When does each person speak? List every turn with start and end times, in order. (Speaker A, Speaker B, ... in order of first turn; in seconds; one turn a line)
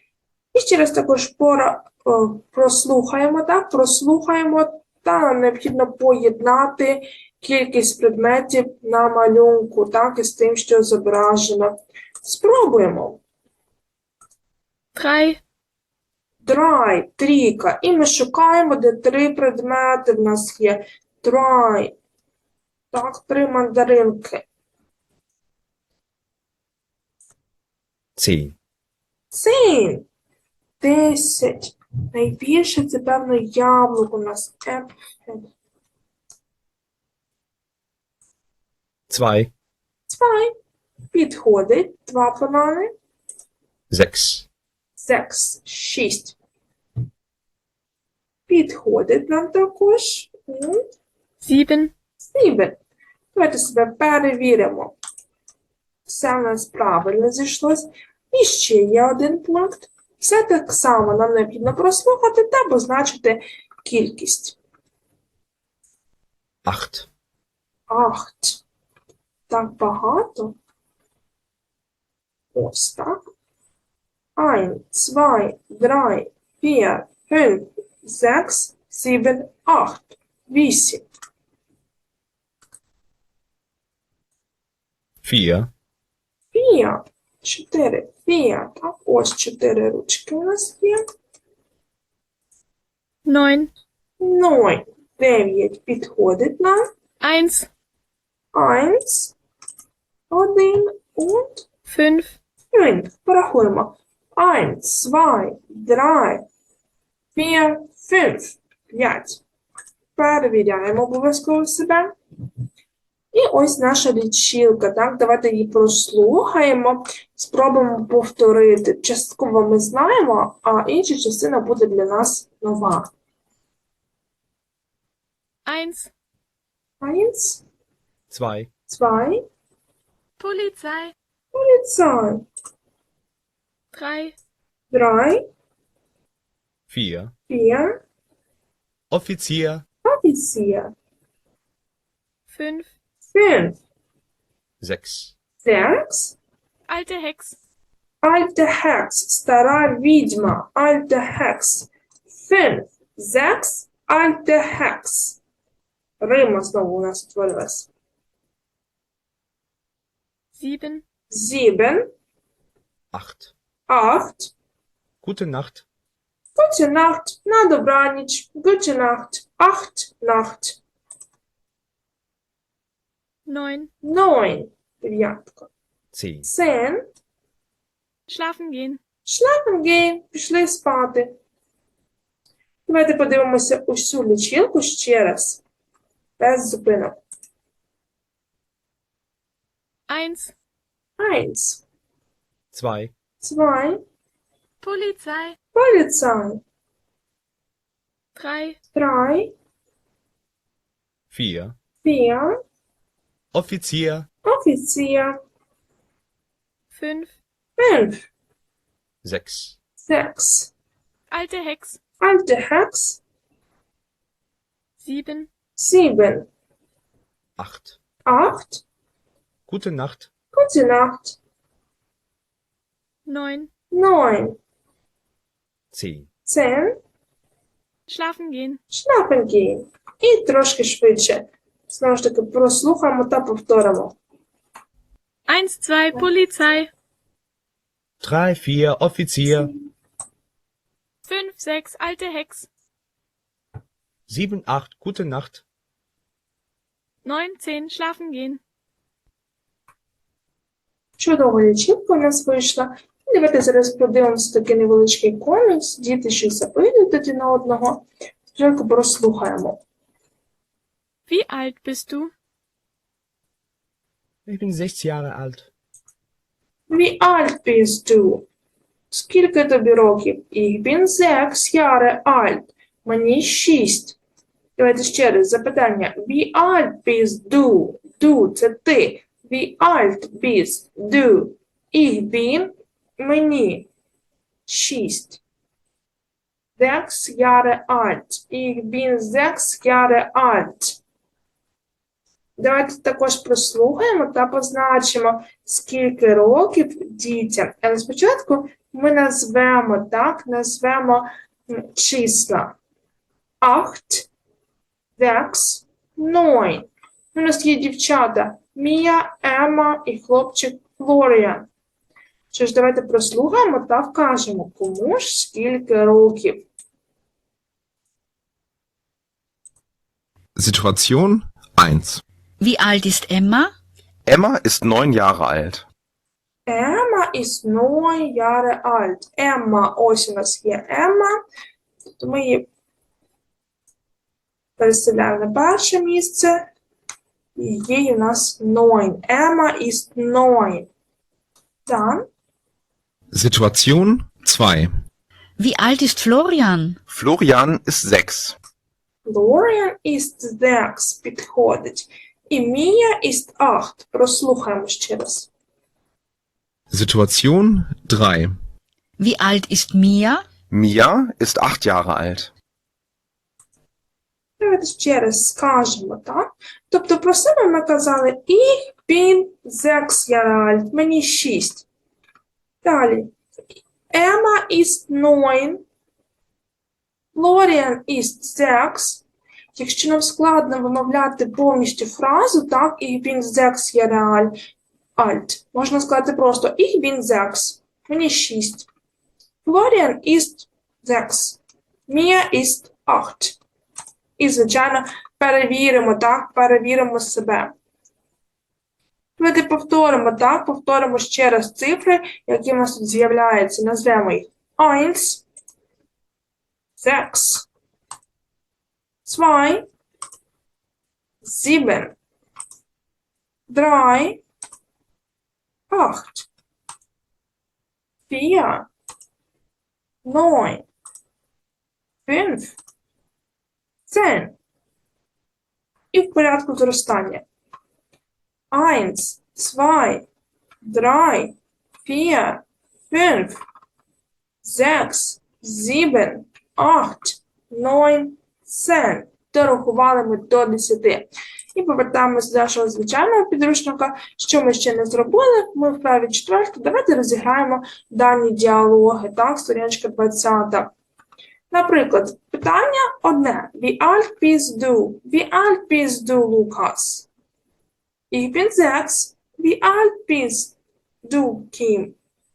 Speaker A: 0.5-13.2
Speaker B: 14.9-15.4
Speaker A: 16.4-22.0
Speaker A: 22.9-24.5
Speaker C: 28.2-28.5
Speaker A: 29.3-30.1
Speaker A: 30.8-35.5
Speaker C: 39.1-39.5
Speaker A: 40.1-40.5
Speaker A: 41.1-42.9
Speaker C: 43.9-44.5
Speaker A: 45.0-46.4
Speaker A: 48.5-50.8
Speaker B: 51.4-51.9
Speaker A: 52.2-52.8
Speaker A: 53.3-55.0
Speaker A: 56.1-64.6
Speaker C: 66.7-67.1
Speaker A: 67.9-68.6
Speaker A: 69.5-70.6
Speaker A: 72.5-73.3
Speaker A: 74.4-81.0
Speaker C: 85.2-85.7
Speaker A: 86.5-91.0
Speaker B: 93.2-93.7
Speaker A: 94.2-96.8
Speaker B: 97.2-97.7
Speaker A: 98.5-99.3
Speaker A: 100.3-101.7
Speaker B: 101.9-102.4
Speaker A: 102.7-106.5
Speaker A: 107.4-109.4
Speaker A: 110.2-112.1
Speaker A: 113.3-123.1
Speaker B: 125.7-126.1
Speaker A: 127.0-127.6
Speaker C: 128.3-128.7
Speaker A: 128.9-129.4
Speaker B: 130.4-131.1
Speaker A: 131.5-132.5
Speaker B: 133.9-134.4
Speaker A: 134.9-135.4
Speaker C: 136.9-137.3
Speaker A: 137.5-138.0
Speaker C: 139.1-139.8
Speaker A: 140.1-140.9
Speaker B: 142.5-142.9
Speaker A: 143.3-143.8
Speaker C: 144.8-145.3
Speaker A: 145.6-146.4
Speaker B: 146.9-147.6
Speaker A: 148.2-155.4
Speaker A: 156.2-157.9
Speaker B: 160.6-161.0
Speaker A: 161.3-162.1
Speaker C: 163.1-163.5
Speaker A: 163.9-164.5
Speaker C: 165.2-165.8
Speaker A: 166.6-170.8
Speaker B: 173.5-173.9
Speaker A: 174.0-175.7
Speaker C: 176.1-176.5
Speaker A: 176.4-177.1
Speaker B: 178.3-179.0
Speaker A: 179.3-181.3
Speaker A: 182.9-185.6
Speaker A: 186.4-187.2
Speaker B: 190.1-190.5
Speaker A: 191.2-191.8
Speaker C: 192.7-193.1
Speaker A: 193.4-194.0
Speaker B: 194.8-195.6
Speaker A: 195.7-196.6
Speaker B: 198.4-198.8
Speaker A: 198.9-199.5
Speaker C: 201.3-201.8
Speaker A: 202.0-202.6
Speaker C: 203.5-204.3
Speaker A: 204.4-205.4
Speaker B: 206.9-207.3
Speaker A: 207.8-208.3
Speaker C: 209.2-209.8
Speaker A: 210.0-210.7
Speaker B: 211.3-212.0
Speaker A: 212.2-213.2
Speaker B: 215.0-215.5
Speaker A: 215.8-216.5
Speaker C: 217.6-218.0
Speaker A: 218.3-218.8
Speaker C: 219.7-220.3
Speaker A: 220.5-221.4
Speaker B: 223.3-223.7
Speaker A: 223.9-224.6
Speaker C: 225.9-226.3
Speaker A: 226.5-227.0
Speaker B: 228.1-228.8
Speaker A: 228.9-234.2
Speaker B: 235.5-236.9
Speaker C: 238.2-239.7
Speaker B: 241.3-242.7
Speaker C: 244.3-245.6
Speaker B: 247.2-248.6
Speaker A: 251.2-259.8
Speaker B: 261.3-262.3
Speaker C: 264.5-265.7
Speaker A: 266.9-268.5
Speaker A: 269.1-274.2
Speaker A: 274.8-283.9
Speaker A: 284.7-285.4
Speaker A: 286.8-291.0
Speaker A: 292.6-302.8
Speaker A: 303.6-304.3
Speaker A: 305.2-311.7
Speaker A: 312.5-316.7
Speaker C: 320.9-321.2
Speaker D: 322.6-323.7
Speaker E: 324.3-325.8
Speaker A: 326.7-331.4
Speaker A: 332.2-332.7
Speaker A: 334.8-336.7
Speaker A: 337.6-340.9
Speaker A: 341.9-342.3
Speaker C: 343.4-344.9
Speaker D: 345.6-347.0
Speaker E: 347.1-348.6
Speaker A: 349.2-355.5
Speaker C: 356.9-358.5
Speaker D: 359.2-360.4
Speaker E: 360.7-362.5
Speaker A: 364.6-371.9
Speaker A: 372.8-373.3
Speaker A: 374.1-375.8
Speaker A: 377.4-379.2
Speaker A: 379.8-384.5
Speaker A: 385.2-388.9
Speaker A: 389.6-393.6
Speaker A: 394.4-397.7
Speaker A: 399.4-405.4
Speaker A: 407.0-407.7
Speaker A: 409.2-409.9
Speaker A: 411.4-412.1
Speaker A: 413.7-414.4
Speaker A: 415.9-416.5
Speaker A: 418.3-418.9
Speaker A: 420.2-420.9
Speaker A: 422.3-422.7
Speaker A: 424.1-424.5
Speaker A: 426.1-427.4
Speaker A: 428.7-430.3
Speaker A: 430.8-433.6
Speaker A: 434.6-450.9
Speaker A: 451.7-457.3
Speaker A: 458.3-462.2